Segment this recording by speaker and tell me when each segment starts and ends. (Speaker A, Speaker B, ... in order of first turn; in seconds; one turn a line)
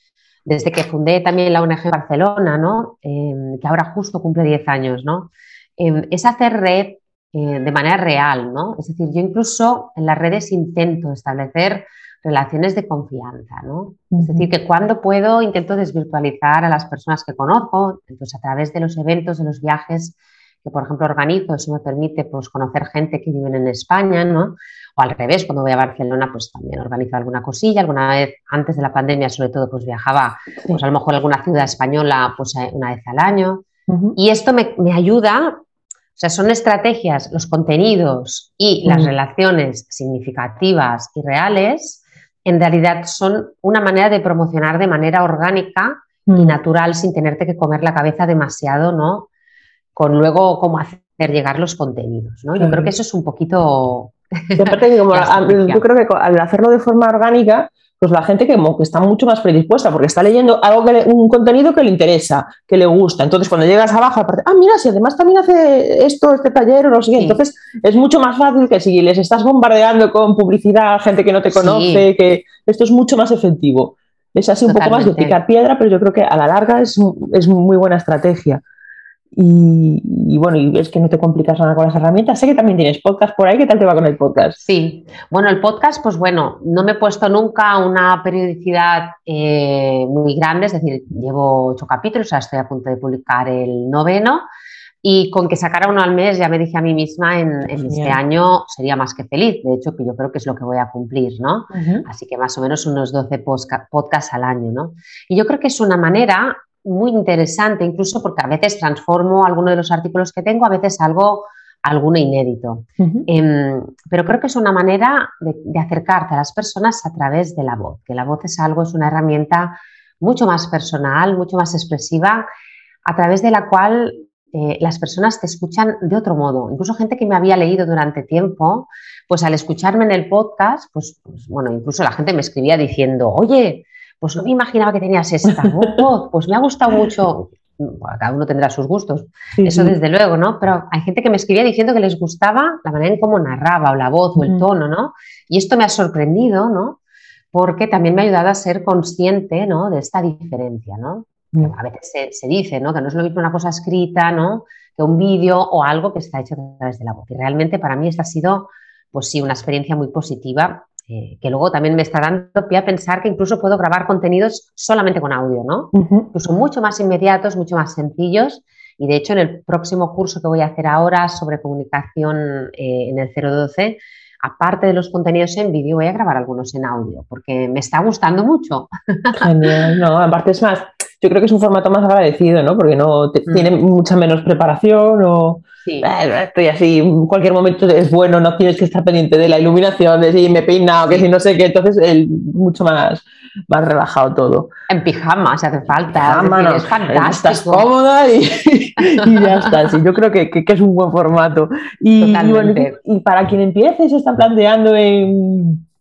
Speaker A: 0.5-33.6
Speaker B: 14.1-14.5
Speaker B: 33.9-34.2
Speaker A: 34.2-35.6
Speaker A: 36.1-49.3
Speaker B: 38.9-39.1
Speaker B: 46.3-46.6
Speaker A: 50.0-55.8
Speaker B: 52.6-52.9
Speaker B: 54.6-78.6
Speaker A: 67.2-67.4
Speaker A: 71.5-72.1
Speaker A: 74.7-75.4
Speaker B: 79.3-84.6
Speaker A: 84.6-94.4
Speaker A: 95.0-122.5
Speaker B: 97.7-98.2
Speaker B: 101.7-102.1
Speaker B: 113.0-113.3
Speaker A: 123.0-147.0
Speaker B: 135.6-136.0
Speaker B: 139.6-140.0
Speaker B: 144.4-144.7
Speaker A: 147.5-179.5
Speaker B: 165.9-166.3
Speaker B: 179.4-194.7
Speaker A: 183.5-183.7
Speaker A: 185.8-186.1
Speaker A: 194.9-197.9
Speaker B: 196.2-205.8
Speaker A: 199.0-199.7
Speaker A: 202.2-202.9